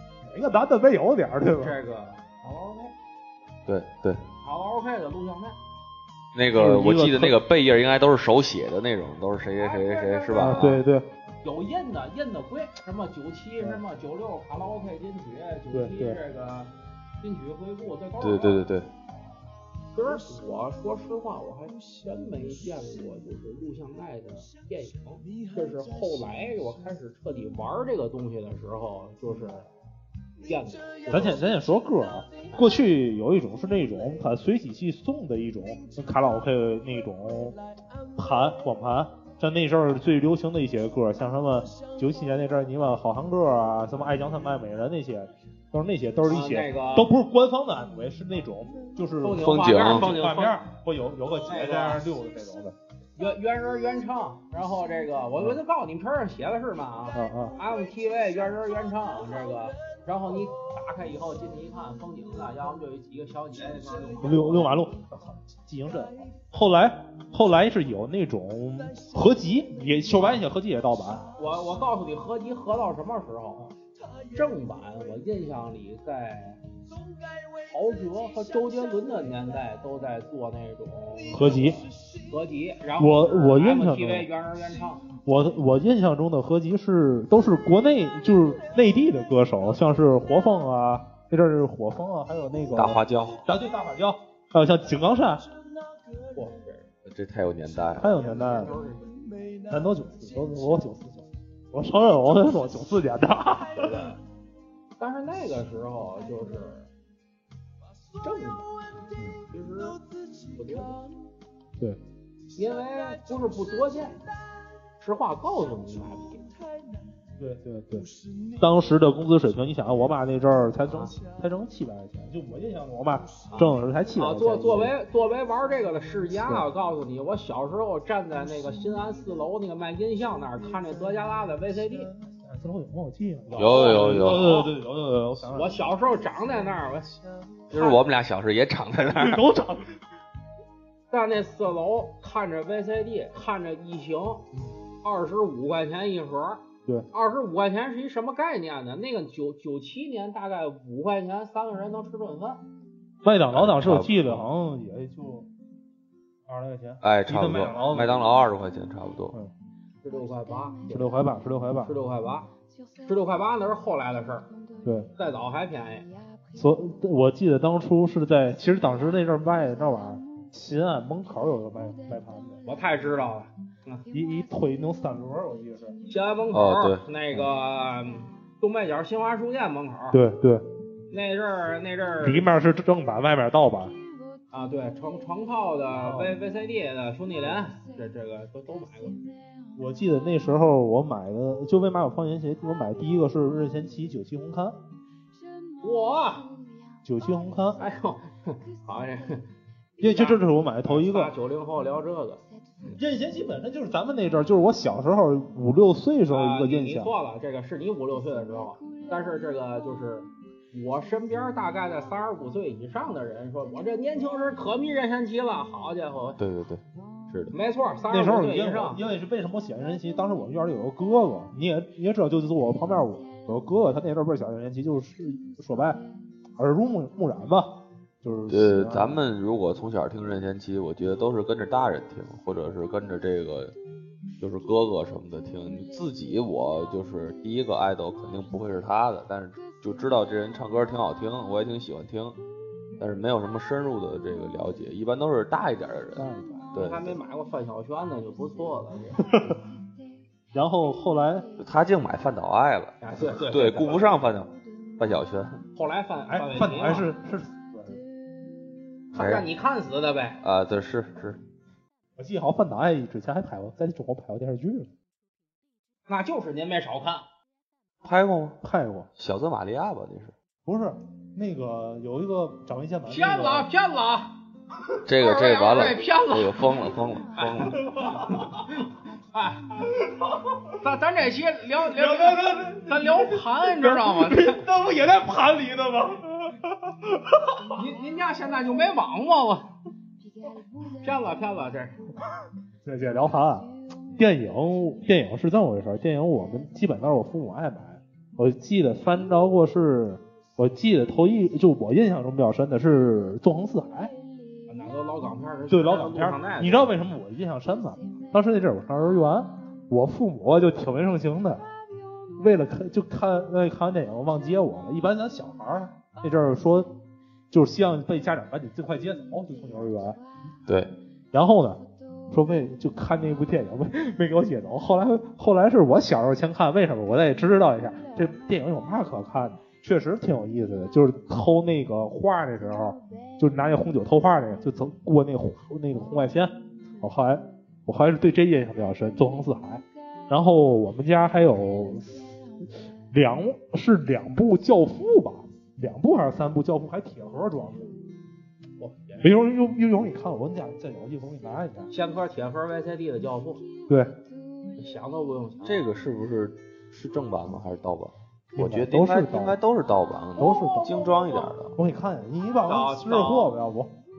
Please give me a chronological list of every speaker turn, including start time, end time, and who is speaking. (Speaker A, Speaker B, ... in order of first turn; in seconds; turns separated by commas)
Speaker A: 0.2-1.8, Speaker B: 1.6-2.9, Speaker C: 3.6-4.2, Speaker B: 4.4-5.6, Speaker C: 6.3-10.8, Speaker A: 6.5-7.4, Speaker B: 9.6-10.6, Speaker A: 10.4-11.1, Speaker B: 11.4-18.6, Speaker A: 15.7-16.2, Speaker C: 18.2-18.9, Speaker B: 19.9-29.7, Speaker B: 30.4-31.4, Speaker A: 31.1-37.6, Speaker A: 38.1-52.8, Speaker B: 46.3-47.1, Speaker B: 49.2-50.6, Speaker C: 49.4-50.0, Speaker B: 51.5-52.0, Speaker B: 53.1-64.7, Speaker A: 57.1-57.5, Speaker A: 64.2-71.2, Speaker B: 71.4-73.7, Speaker B: 74.3-76.6, Speaker B: 77.6-85.1, Speaker A: 81.3-81.8, Speaker A: 83.0-84.3, Speaker A: 85.2-95.4, Speaker C: 92.7-93.4, Speaker B: 96.3-96.9, Speaker C: 97.0-98.1, Speaker A: 97.9-98.7, Speaker B: 98.0-99.1, Speaker A: 99.7-104.0, Speaker B: 103.7-104.2, Speaker B: 105.0-106.9, Speaker B: 108.2-108.7, Speaker B: 109.5-111.0, Speaker B: 112.5-114.2, Speaker B: 115.0-116.5, Speaker A: 117.4-124.9, Speaker B: 120.9-121.2, Speaker B: 123.5-132.1, Speaker A: 132.0-135.8, Speaker B: 133.5-134.7, Speaker C: 133.6-134.6, Speaker B: 135.5-137.2, Speaker B: 137.7-138.0, Speaker C: 137.7-139.4, Speaker A: 139.1-140.0, Speaker B: 141.1-144.4, Speaker B: 145.0-152.6, Speaker A: 153.2-155.5, Speaker C: 153.5-154.4, Speaker A: 156.5-158.3, Speaker C: 157.0-159.3, Speaker B: 160.0-161.2, Speaker A: 160.9-161.9, Speaker B: 161.8-162.5, Speaker B: 163.0-164.5, Speaker A: 164.8-165.1, Speaker B: 165.2-166.1, Speaker A: 166.5-172.6, Speaker B: 172.7-174.0, Speaker A: 174.1-176.0, Speaker B: 176.1-180.2, Speaker C: 176.5-177.0, Speaker A: 180.1-180.7, Speaker B: 181.1-182.5, Speaker A: 182.2-184.0, Speaker B: 184.5-189.2, Speaker A: 186.0-186.3, Speaker A: 189.8-194.8, Speaker B: 195.8-196.5, Speaker A: 197.0-197.8, Speaker B: 197.8-199.5, Speaker A: 200.0-201.3, Speaker B: 200.0-203.0, Speaker A: 203.0-207.1, Speaker B: 206.3-216.4, Speaker C: 216.4-217.5, Speaker B: 217.5-219.0, Speaker A: 218.1-226.0, Speaker A: 226.6-229.2, Speaker C: 228.5-233.7, Speaker C: 234.4-242.4, Speaker C: 243.0-247.2, Speaker A: 246.2-246.7, Speaker B: 246.7-249.3, Speaker A: 249.2-249.6, Speaker A: 250.5-251.5, Speaker C: 251.6-255.6, Speaker B: 253.0-254.2, Speaker B: 255.7-257.1, Speaker A: 256.3-258.0, Speaker B: 259.1-260.4, Speaker C: 259.1-259.5, Speaker C: 260.4-261.4, Speaker A: 262.2-264.9, Speaker B: 266.1-267.2, Speaker C: 268.0-268.6, Speaker A: 268.6-269.1, Speaker C: 269.2-270.3, Speaker A: 270.6-273.7, Speaker B: 273.1-274.4, Speaker C: 275.1-277.8, Speaker B: 275.1-276.7, Speaker B: 277.3-279.9, Speaker A: 277.9-278.2, Speaker B: 280.7-284.6, Speaker A: 281.9-287.6, Speaker B: 287.7-289.7, Speaker B: 291.0-292.0, Speaker A: 292.8-304.1, Speaker B: 304.7-306.9, Speaker A: 305.7-311.6, Speaker A: 312.4-316.9, Speaker A: 317.5-320.2, Speaker C: 320.7-320.9, Speaker A: 321.3-342.4, Speaker A: 343.1-347.9, Speaker B: 348.8-349.4, Speaker A: 349.2-351.9, Speaker B: 351.9-353.6, Speaker A: 353.9-354.1, Speaker B: 354.8-355.8, Speaker C: 355.6-361.7, Speaker A: 358.6-359.6, Speaker A: 360.4-360.9, Speaker B: 360.4-361.5, Speaker A: 361.7-363.9, Speaker B: 362.6-363.5